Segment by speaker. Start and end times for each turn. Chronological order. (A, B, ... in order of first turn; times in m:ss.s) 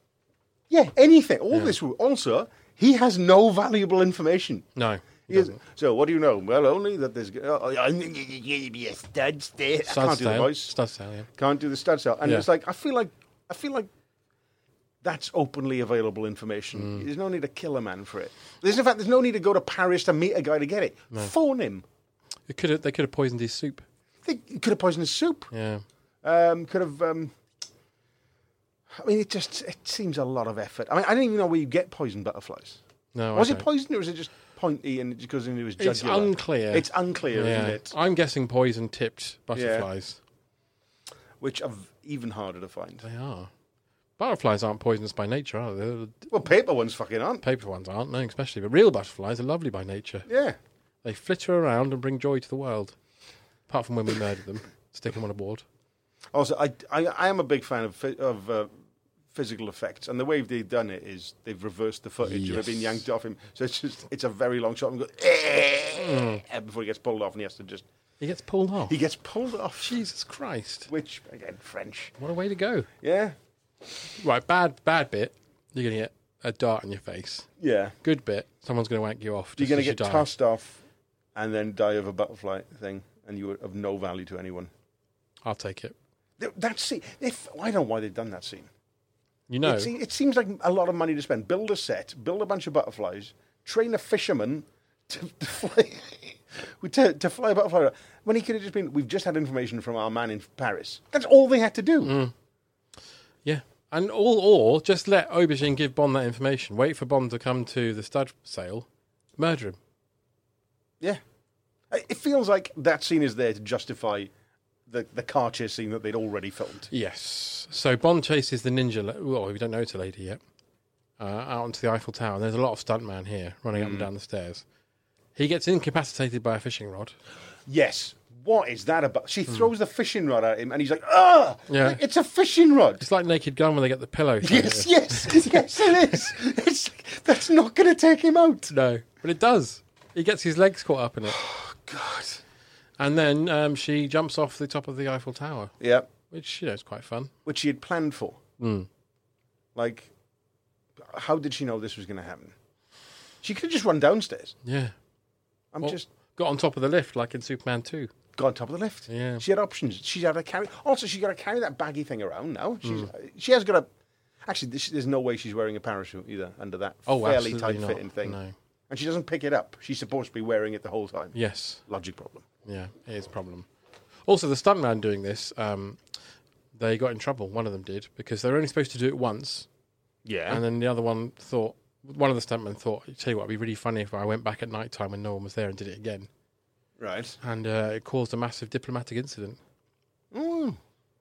0:00.7-0:04.7 A
0:04.8-0:05.6 B
0:05.3-0:10.7 A
0:09.9-0:11.3 B
0:11.3-0:13.9 A
0:15.0-0:21.8 A
0:16.7-0:17.1 B
0:22.5-0:23.8 B
0:24.2-0:25.5 A
0:25.5-0:25.8 B
0:26.2-0:27.3 A
0:28.9-0:32.8 A
0:33.1-0:33.6 B
0:33.3-0:37.9 A
0:35.8-0:40.2 B
0:39.5-0:39.9 A
0:41.4-0:43.0 A
0:43.0-0:43.5 B
0:44.2-0:46.3 B
0:46.3-0:47.4 A
0:47.4-0:50.3 B
0:50.3-0:50.6 A
0:51.0-0:53.0 B
0:53.7-0:55.6 B
0:56.3-0:58.7 A
0:59.3-1:07.8 A
1:02.2-1:03.0 B
1:06.0-1:06.4 B
1:08.2-1:09.0 B
1:08.9-1:10.0 A
1:09.8-1:10.9 B
1:10.9-1:12.1 A
1:12.2-1:12.9 B
1:13.0-1:13.4 A
1:14.2-1:17.5 B
1:17.6-1:17.9 A
1:18.0-1:20.3 B
1:19.6-1:20.8 A
1:21.3-1:24.7 A
1:25.4-1:25.9 B
1:26.4-1:28.7 A
1:29.5-1:29.9 B
1:29.6-1:42.2 A
1:42.0-1:42.3 B
1:43.4-1:48.9 B
1:49.4-1:49.8 B
1:51.9-1:54.3 A
1:54.9-1:56.9 A
1:56.9-2:00.4 B
2:01.2-2:04.6 B
2:03.7-2:04.1 A
2:05.4-2:07.1 B
2:07.7-2:13.0 A
2:11.7-2:12.0 B
2:13.0-2:16.1 B
2:14.4-2:18.7 A
2:18.7-2:21.4 B
2:21.3-2:22.4 A
2:23.0-2:25.7 B
2:25.8-2:26.1 A
2:26.3-2:27.3 B
2:27.4-2:28.4 A
2:28.6-2:28.9 B
2:29.7-2:30.1 A
2:31.0-2:32.5 A
2:33.4-2:34.5 A
2:34.6-2:34.9 B
2:35.7-2:36.1 A
2:35.8-2:38.1 B
2:38.3-2:43.9 A
2:39.1-2:39.4 B
2:42.8-2:43.1 B
2:44.4-2:52.4 A
2:47.1-2:48.5 B
2:51.3-2:51.8 B
2:52.6-2:53.7 B
2:54.2-2:56.0 B
2:56.7-2:59.7 B
3:00.2-3:00.6 A
3:00.5-3:06.3 B
3:07.0-3:07.4 A
3:07.4-3:09.6 B
3:10.3-3:10.8 A